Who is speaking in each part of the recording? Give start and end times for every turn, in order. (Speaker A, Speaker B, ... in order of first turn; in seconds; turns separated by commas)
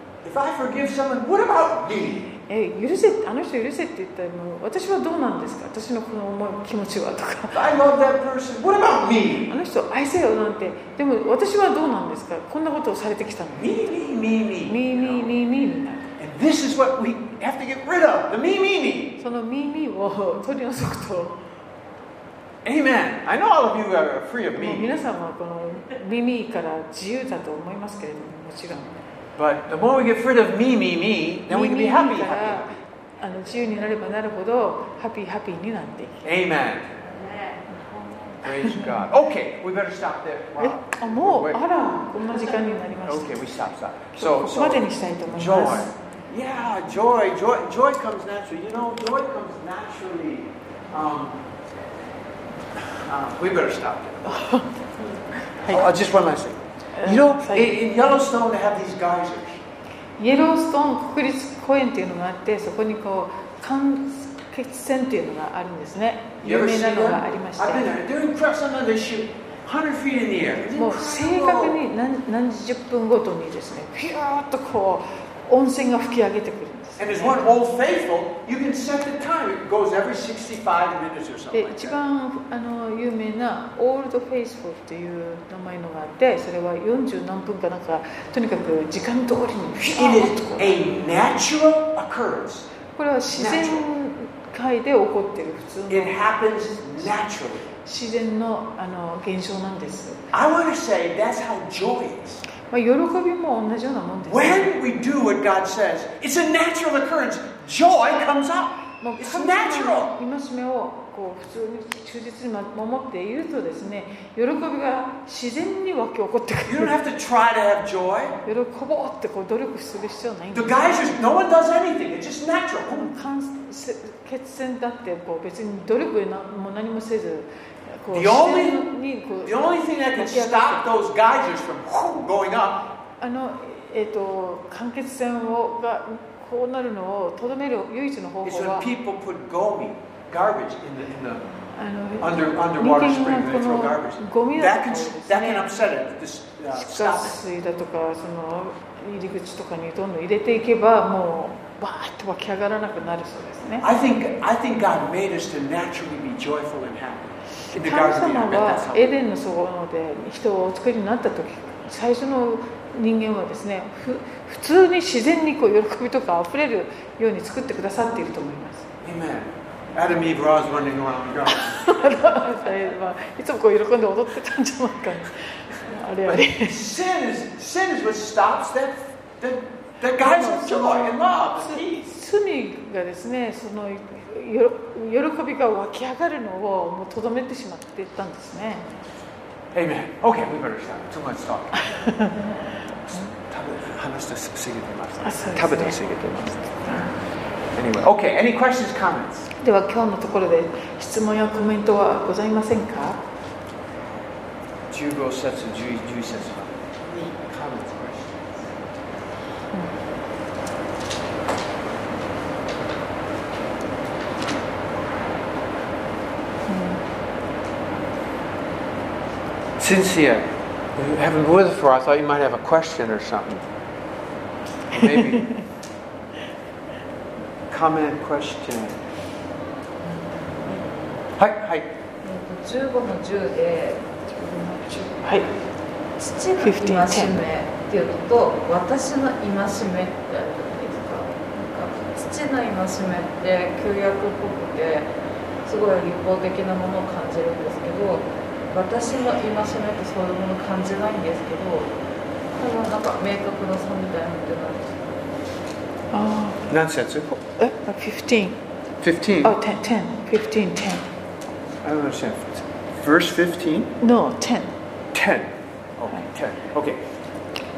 Speaker A: 0.2-2.3, Speaker B: 2.3-7.7, Speaker A: 7.5-9.5, Speaker B: 9.5-13.8, Speaker A: 13.6-15.3, Speaker B: 14.7-16.0, Speaker A: 16.2-19.2, Speaker B: 19.2-21.4, Speaker A: 22.6-25.0, Speaker B: 24.5-28.9, Speaker A: 29.4-32.8, Speaker B: 31.5-36.2, Speaker A: 36.2-37.0, Speaker A: 38.4-41.6, Speaker B: 38.5-39.0, Speaker B: 40.6-43.4, Speaker A: 43.0-51.4, Speaker B: 44.1-45.9, Speaker A: 52.7-54.4, Speaker B: 54.3-54.7, Speaker B: 55.6-55.9, Speaker A: 55.6-59.6, Speaker B: 57.0-57.8, Speaker B: 60.2-67.9, Speaker A: 66.4-71.8, Speaker B: 70.7-77.5, Speaker A: 77.0-82.0, Speaker B: 81.5-90.8, Speaker A: 89.8-92.7, Speaker B: 93.0-96.2, Speaker A: 93.3-93.8, Speaker A: 95.9-97.7, Speaker B: 97.8-100.2, Speaker A: 100.3-102.4, Speaker B: 102.7-104.7, Speaker A: 104.3-110.1, Speaker B: 109.0-116.9, Speaker A: 116.6-118.4, Speaker B: 118.4-121.1, Speaker A: 120.5-123.1, Speaker B: 122.9-130.9, Speaker A: 128.1-128.8, Speaker A: 129.4-132.9, Speaker B: 133.2-138.9, Speaker A: 138.4-141.4, Speaker B: 141.7-145.7, Speaker A: 142.2-147.4, Speaker B: 146.7-153.9, Speaker A: 153.8-159.1, Speaker B: 157.7-168.9, Speaker A: 169.0-172.0, Speaker B: 171.7-176.9, Speaker A: 176.2-182.1, Speaker B: 180.1-188.9, Speaker A: 189.7-191.9, Speaker B: 191.8-193.2, Speaker A: 193.1-196.8, Speaker B: 195.2-196.1, Speaker B: 196.6-197.1, Speaker A: 197.7-199.5, Speaker B: 199.6-203.3, Speaker A: 204.9-208.7, Speaker B: 216.7-217.0, Speaker A: 219.8-223.6, Speaker A: 224.9-225.6, Speaker B: 225.0-225.6, Speaker A: 227.7-229.0, Speaker A: 231.4-231.9, Speaker C: 232.2-234.1, Speaker B: 234.3-235.5, Speaker C: 236.2-245.1, Speaker B: 236.6-237.4, Speaker C: 245.6-251.9, Speaker C: 252.5-254.9, Speaker B: 256.1-256.7, Speaker A: 256.7-257.3, Speaker B: 257.3-258.6, Speaker A: 259.0-259.6, Speaker B: 259.4-261.1, Speaker A: 261.8-263.9, Speaker B: 264.0-264.7, Speaker A: 265.1-267.0